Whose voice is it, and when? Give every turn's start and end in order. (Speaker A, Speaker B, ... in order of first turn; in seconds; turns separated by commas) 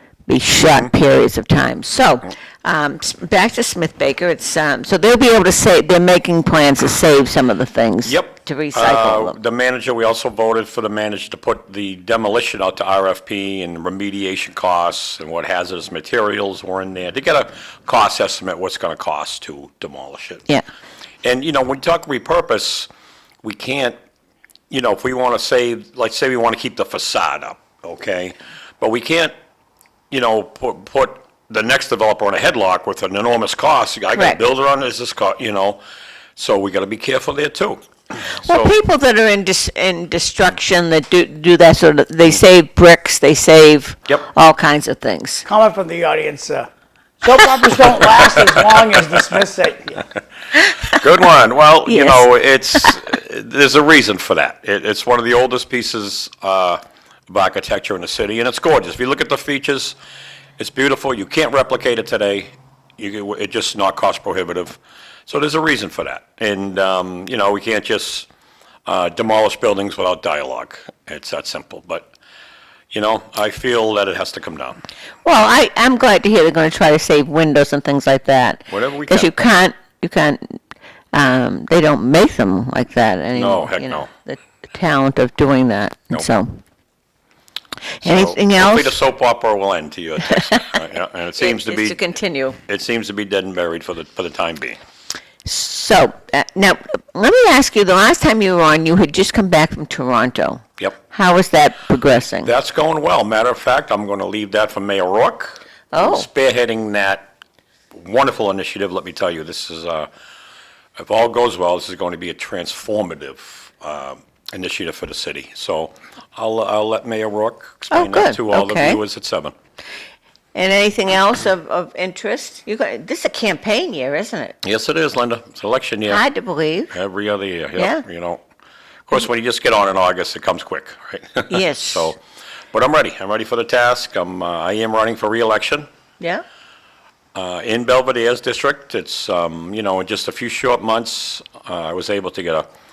Speaker A: 0.3-9.4, Speaker B: 8.0-20.4, Speaker B: 21.2-22.9, Speaker B: 23.4-23.9, Speaker B: 24.7-29.3, Speaker B: 30.1-35.8, Speaker A: 34.1-34.4, Speaker B: 36.4-38.7, Speaker A: 38.4-45.4, Speaker C: 45.5-46.7, Speaker C: 47.2-50.0, Speaker B: 50.9-60.0, Speaker A: 51.9-52.2, Speaker B: 60.6-68.3, Speaker B: 68.8-72.1, Speaker B: 72.9-74.8, Speaker A: 75.2-80.5, Speaker B: 78.7-79.3, Speaker A: 81.1-86.6, Speaker B: 83.3-84.1, Speaker A: 88.0-89.0, Speaker B: 88.0-92.0, Speaker A: 91.4-92.6, Speaker B: 92.7-94.8, Speaker A: 95.4-102.5, Speaker B: 102.4-107.3, Speaker A: 105.9-106.2, Speaker B: 107.9-110.1, Speaker B: 111.0-119.5, Speaker A: 117.9-119.0, Speaker A: 120.5-124.6, Speaker B: 124.6-126.2, Speaker A: 126.1-126.9, Speaker B: 126.9-128.4, Speaker A: 127.8-128.0, Speaker B: 129.1-132.2, Speaker A: 131.5-132.1, Speaker B: 132.7-135.8, Speaker B: 137.3-142.7